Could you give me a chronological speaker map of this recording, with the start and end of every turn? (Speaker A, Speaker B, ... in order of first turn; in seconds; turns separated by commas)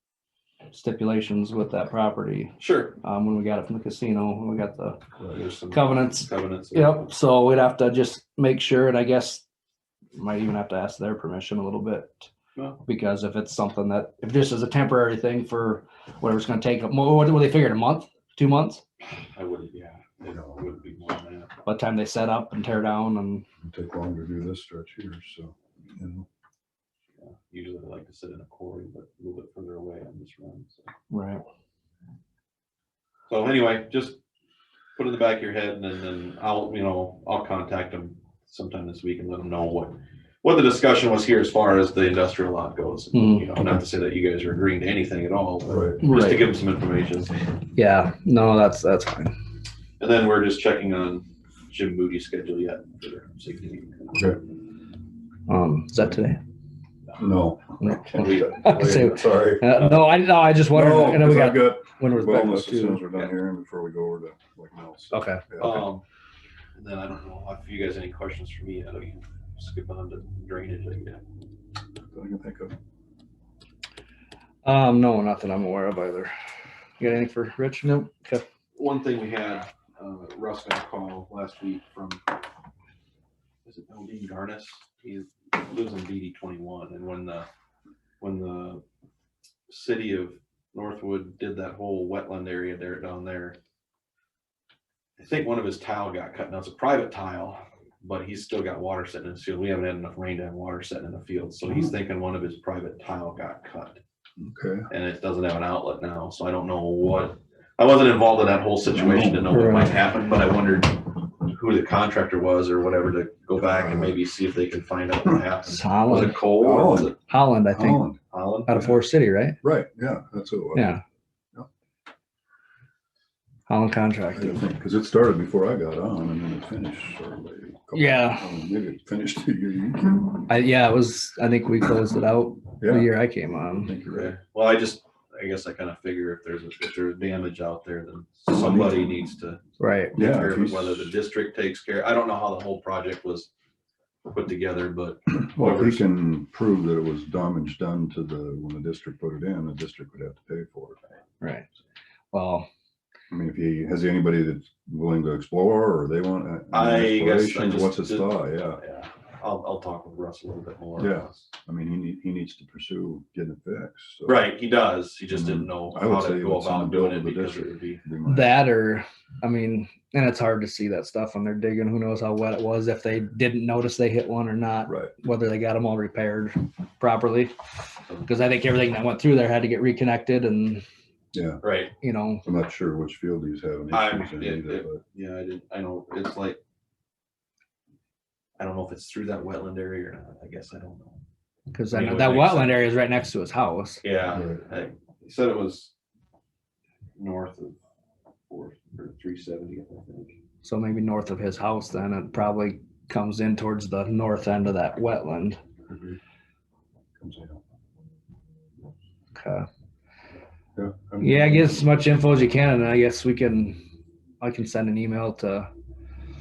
Speaker A: 0.7-5.0, Speaker B: 2.6-3.0, Speaker B: 5.3-7.1, Speaker A: 5.7-9.4, Speaker A: 10.2-12.3, Speaker B: 12.6-12.8, Speaker A: 12.8-18.8, Speaker B: 19.3-21.5, Speaker A: 21.6-23.5, Speaker C: 23.6-26.3, Speaker B: 27.2-30.9, Speaker A: 31.1-31.4, Speaker B: 33.3-34.2, Speaker B: 35.0-47.4, Speaker A: 43.1-43.5, Speaker C: 45.7-46.0, Speaker A: 46.0-46.5, Speaker A: 47.8-49.3, Speaker B: 50.0-54.3, Speaker A: 55.5-56.4, Speaker C: 57.2-59.8, Speaker A: 57.8-63.0, Speaker B: 58.2-59.1, Speaker B: 59.8-60.0, Speaker C: 60.7-65.9, Speaker A: 65.1-65.4, Speaker B: 65.6-66.0, Speaker B: 66.8-71.2, Speaker C: 72.1-72.8, Speaker A: 74.7-76.3, Speaker A: 77.0-78.5, Speaker B: 78.8-82.2, Speaker B: 83.7-87.5, Speaker B: 88.2-88.8, Speaker B: 89.7-93.6, Speaker B: 95.2-104.0, Speaker C: 101.7-101.9, Speaker C: 104.4-104.9, Speaker B: 104.9-117.2, Speaker C: 108.9-109.6, Speaker A: 109.5-109.9, Speaker C: 113.6-114.2, Speaker A: 115.7-116.4, Speaker C: 116.6-117.1, Speaker A: 117.3-118.0, Speaker C: 117.7-118.2, Speaker B: 118.3-118.9, Speaker A: 118.7-119.6, Speaker C: 119.6-120.9, Speaker A: 120.8-121.0, Speaker A: 123.7-124.6, Speaker C: 124.3-130.5, Speaker A: 127.9-128.5, Speaker A: 130.5-134.0, Speaker C: 132.8-133.1, Speaker C: 133.8-134.3, Speaker B: 134.1-139.6, Speaker C: 138.5-139.3, Speaker A: 139.8-140.2, Speaker B: 140.1-143.5, Speaker C: 140.2-141.1, Speaker B: 144.3-146.0, Speaker C: 145.5-151.0, Speaker A: 151.4-151.7, Speaker A: 152.3-152.7, Speaker C: 153.3-158.8, Speaker B: 156.7-161.5, Speaker C: 161.0-164.5, Speaker B: 164.2-168.0, Speaker C: 165.3-168.7, Speaker A: 168.3-177.5, Speaker C: 174.9-175.1, Speaker A: 178.2-180.8, Speaker C: 181.3-181.6, Speaker B: 181.6-181.9, Speaker A: 182.0-182.4, Speaker C: 182.4-185.0, Speaker B: 183.9-186.6, Speaker B: 188.6-191.2, Speaker A: 191.7-194.0, Speaker B: 191.9-192.9, Speaker B: 194.0-195.9, Speaker C: 194.3-194.6, Speaker B: 197.2-197.8, Speaker B: 198.5-200.4, Speaker A: 200.6-205.6, Speaker C: 205.9-206.2, Speaker C: 207.2-207.6, Speaker A: 209.3-209.7, Speaker C: 210.8-211.8, Speaker A: 211.2-213.8, Speaker A: 214.4-215.7